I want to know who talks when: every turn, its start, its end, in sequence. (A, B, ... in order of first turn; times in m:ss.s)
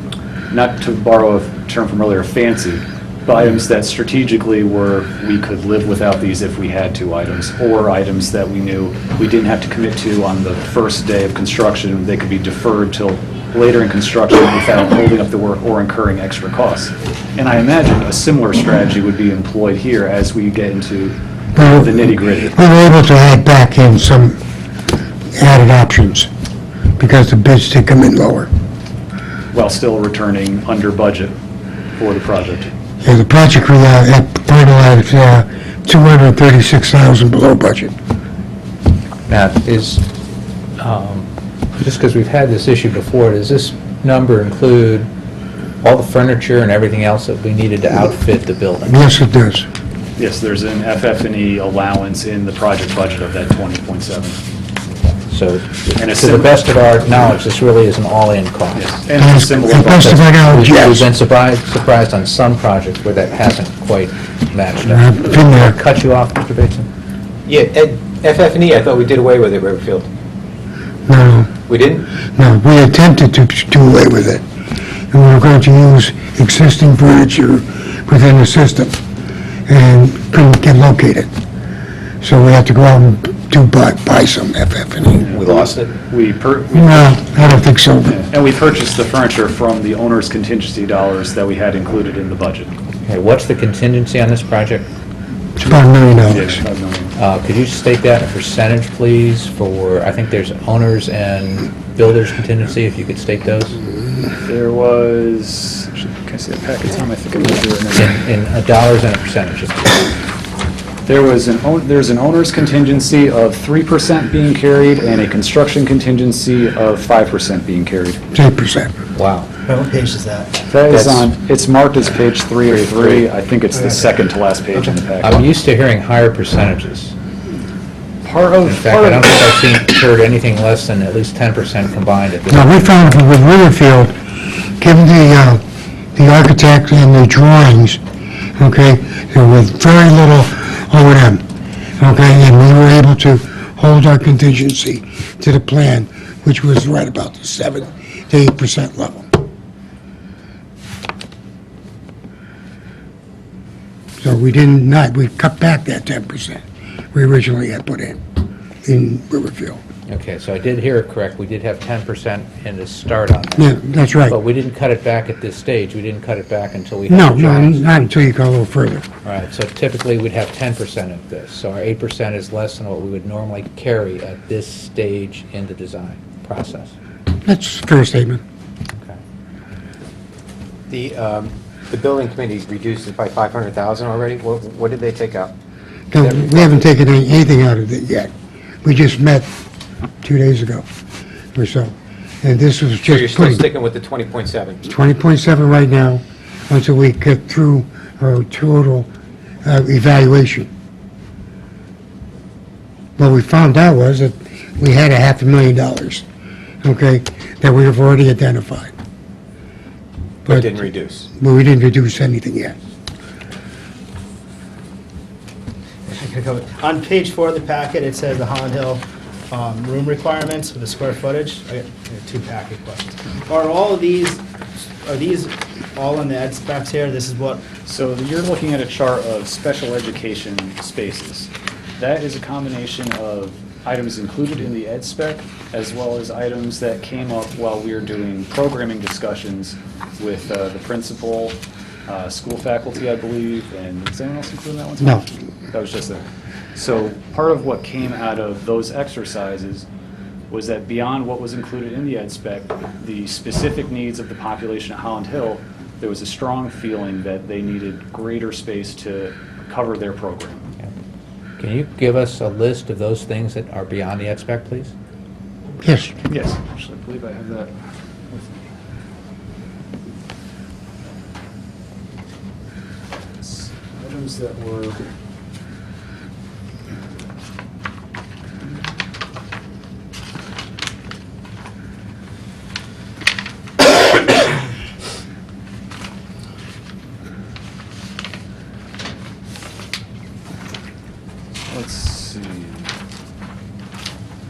0:00.5-0:22.6 A
0:21.6-0:22.0 B
0:22.5-0:24.4 B
0:25.3-0:26.3 B
0:27.0-0:28.5 B
0:29.5-0:31.3 A
0:32.0-0:32.7 A
0:33.0-0:37.9 B
0:39.3-0:40.0 C
0:40.8-0:45.1 C
0:45.8-0:49.0 C
0:48.8-0:49.7 B
0:50.2-0:54.4 A
0:55.3-0:58.9 C
0:56.0-0:56.6 A
0:58.7-1:00.4 A
0:59.2-1:01.1 B
0:59.8-1:06.9 C
1:04.8-1:05.7 B
1:07.4-1:10.1 D
1:11.1-1:11.6 B
1:11.7-1:12.1 D
1:12.3-1:14.4 B
1:15.1-1:19.0 B
1:19.7-1:21.3 B
1:22.2-1:25.2 B
1:25.2-1:27.3 A
1:25.3-1:25.9 D
1:26.7-1:28.2 B
1:28.0-1:32.7 A
1:33.0-1:34.9 C
1:35.6-1:36.6 B
1:36.3-1:37.1 A
1:37.2-1:43.8 C
1:44.4-1:48.2 A
1:48.0-1:50.1 C
1:51.0-1:58.2 A
1:58.3-1:58.9 B
1:59.1-1:59.5 C
1:59.7-2:00.6 E
2:00.6-2:05.4 A
2:00.9-2:01.2 D
2:03.7-2:04.1 E
2:05.2-2:07.1 C
2:08.2-2:09.5 A
2:08.6-2:12.9 C
2:12.5-2:14.2 B
2:14.8-2:15.6 B
2:16.1-2:18.0 B
2:18.6-2:21.4 B
2:22.0-2:29.4 B
2:34.2-2:36.6 B
2:37.1-2:38.2 B
2:38.8-2:39.8 B
2:40.1-2:43.7 C
2:43.6-2:44.4 B
2:44.3-2:47.9 C
2:47.1-2:49.0 B
2:49.2-2:56.9 C
2:57.4-2:58.4 B
3:00.9-3:05.5 D
3:06.1-3:08.3 B
3:06.2-3:06.9 D
3:08.8-3:09.5 B
3:10.2-3:10.8 B
3:11.5-3:13.6 B
3:13.0-3:14.8 D
3:14.9-3:19.1 B
3:19.6-3:20.7 B
3:23.2-3:26.2 B
3:26.8-3:28.9 B
3:30.4-3:31.3 D
3:30.4-3:30.8 B
3:31.4-3:32.8 B
3:36.1-3:47.6 E
3:47.8-4:06.2 A
4:06.7-4:09.9 A
4:10.5-4:20.6 A
4:21.6-4:24.9 C
4:25.8-4:26.2 B
4:26.3-4:27.7 A
4:33.4-4:35.0 A
4:51.7-4:52.9 A